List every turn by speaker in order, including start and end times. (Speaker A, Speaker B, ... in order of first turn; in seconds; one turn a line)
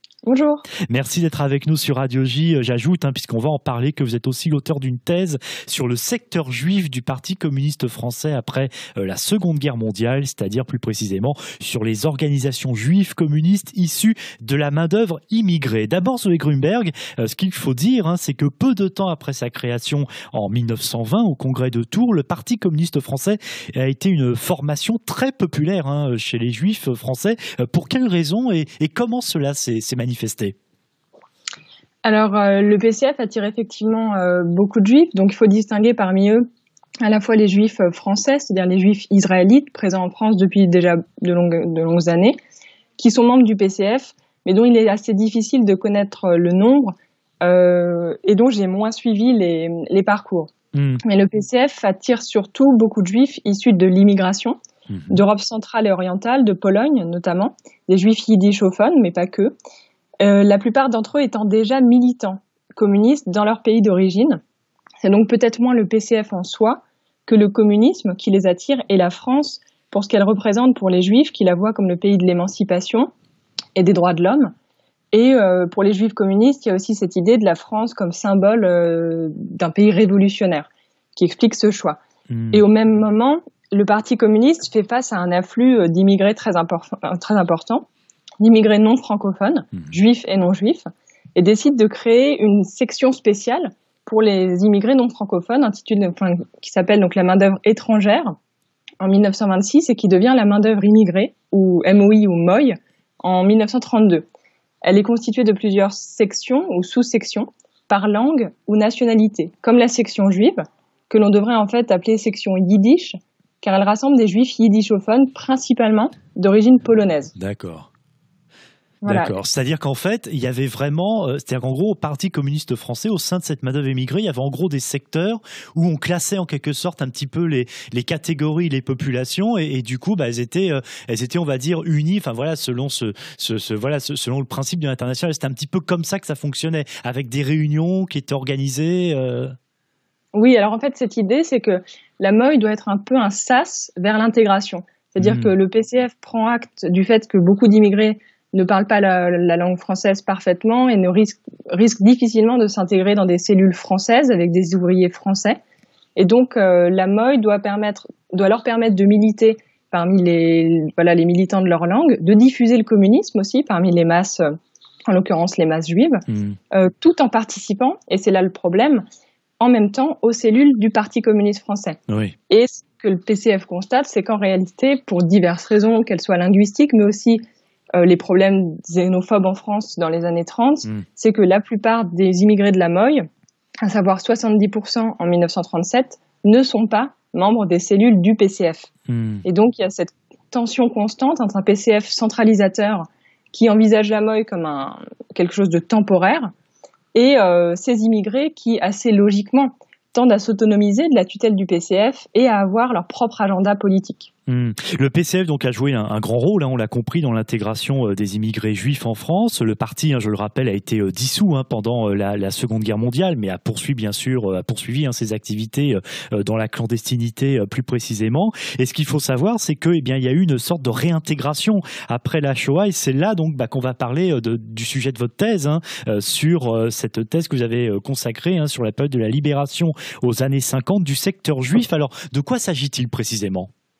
Speaker A: 0.2-0.7
Speaker B: 0.9-30.6
Speaker A: 32.0-36.5
Speaker A: 37.0-42.4
Speaker A: 43.0-50.5
Speaker B: 50.7-51.0
Speaker A: 51.0-54.6
Speaker B: 54.9-55.2
Speaker A: 55.1-59.5
Speaker A: 60.2-64.4
Speaker A: 65.0-73.1
Speaker A: 73.7-74.5
Speaker A: 75.1-82.0
Speaker B: 82.3-82.6
Speaker A: 82.5-87.8
Speaker A: 88.4-98.3
Speaker A: 99.0-104.2
Speaker A: 104.8-117.3
Speaker B: 117.3-117.9
Speaker A: 119.0-119.3
Speaker B: 119.0-139.5
Speaker A: 140.3-155.6
Speaker B: 145.2-145.5
Speaker A: 156.2-164.5
Speaker A: 165.1-169.0
Speaker B: 166.3-166.6
Speaker A: 169.6-177.4
Speaker B: 172.1-172.3
Speaker A: 178.0-183.3
Speaker A: 183.8-188.9
Speaker B: 189.1-189.4
Speaker A: 189.4-196.5
Speaker A: 197.1-204.3
Speaker B: 204.5-233.7